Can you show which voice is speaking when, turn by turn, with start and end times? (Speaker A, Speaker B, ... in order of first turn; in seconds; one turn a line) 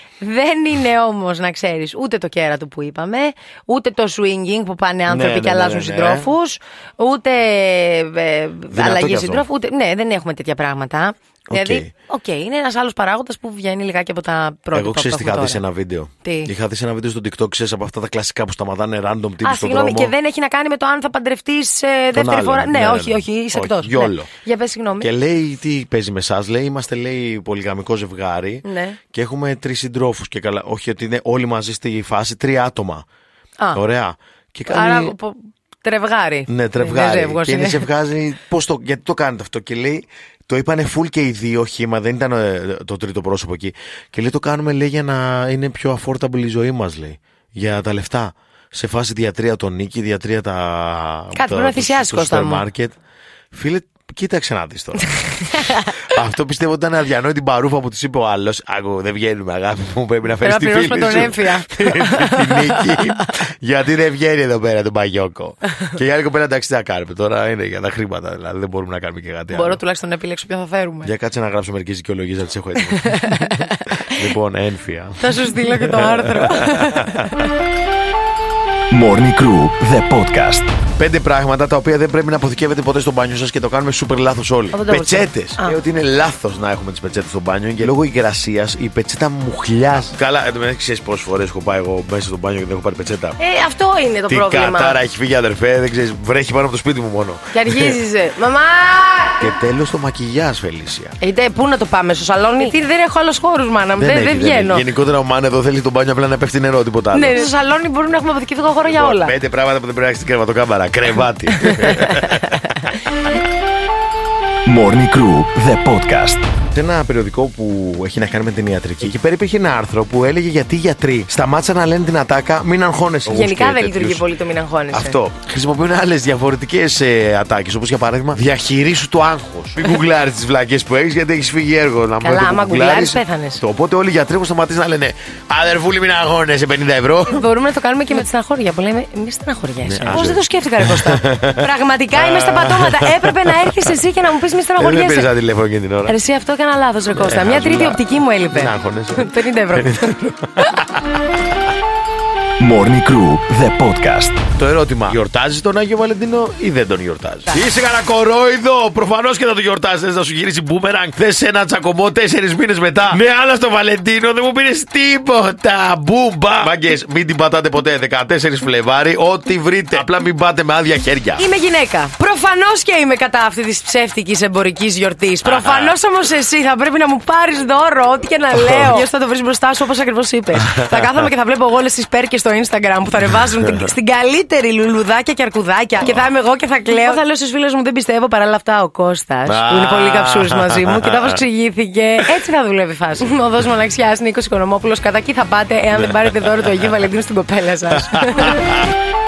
Speaker A: 0.2-15.6
Speaker B: 5.1-6.3
Speaker B: 8.7-9.5
Speaker B: 11.5-11.9
Speaker B: 14.7-20.1
Speaker A: 16.2-16.5
Speaker A: 19.4-25.1
Speaker B: 22.1-24.3
Speaker B: 25.0-33.0
Speaker A: 28.6-29.0
Speaker B: 33.7-35.1
Speaker A: 34.7-37.9
Speaker B: 36.5-53.0
Speaker A: 51.3-52.6
Speaker B: 53.5-69.8
Speaker A: 55.5-55.9
Speaker A: 60.4-63.3
Speaker A: 69.5-71.1
Speaker B: 71.0-77.3
Speaker A: 73.1-74.2
Speaker A: 75.2-77.3
Speaker C: 78.9-80.7
Speaker B: 81.0-93.4
Speaker A: 84.7-85.8
Speaker A: 93.4-95.0
Speaker B: 94.3-98.0
Speaker A: 97.5-99.5
Speaker B: 99.4-101.2
Speaker A: 101.2-104.9
Speaker B: 104.0-107.5
Speaker A: 107.1-109.3
Speaker B: 108.9-113.0
Speaker A: 111.6-112.2
Speaker C: 114.7-116.5
Speaker B: 116.7-124.2
Speaker A: 123.3-125.2
Speaker B: 124.9-137.5
Speaker A: 132.2-133.6
Speaker A: 137.3-145.3
Speaker B: 139.8-143.9
Speaker B: 144.8-146.2
Speaker A: 146.1-150.8
Speaker B: 147.1-151.0
Speaker C: 152.6-154.4
Speaker B: 154.6-171.4
Speaker A: 171.4-198.7
Speaker B: 175.4-175.9
Speaker B: 189.5-191.4
Speaker B: 198.1-198.9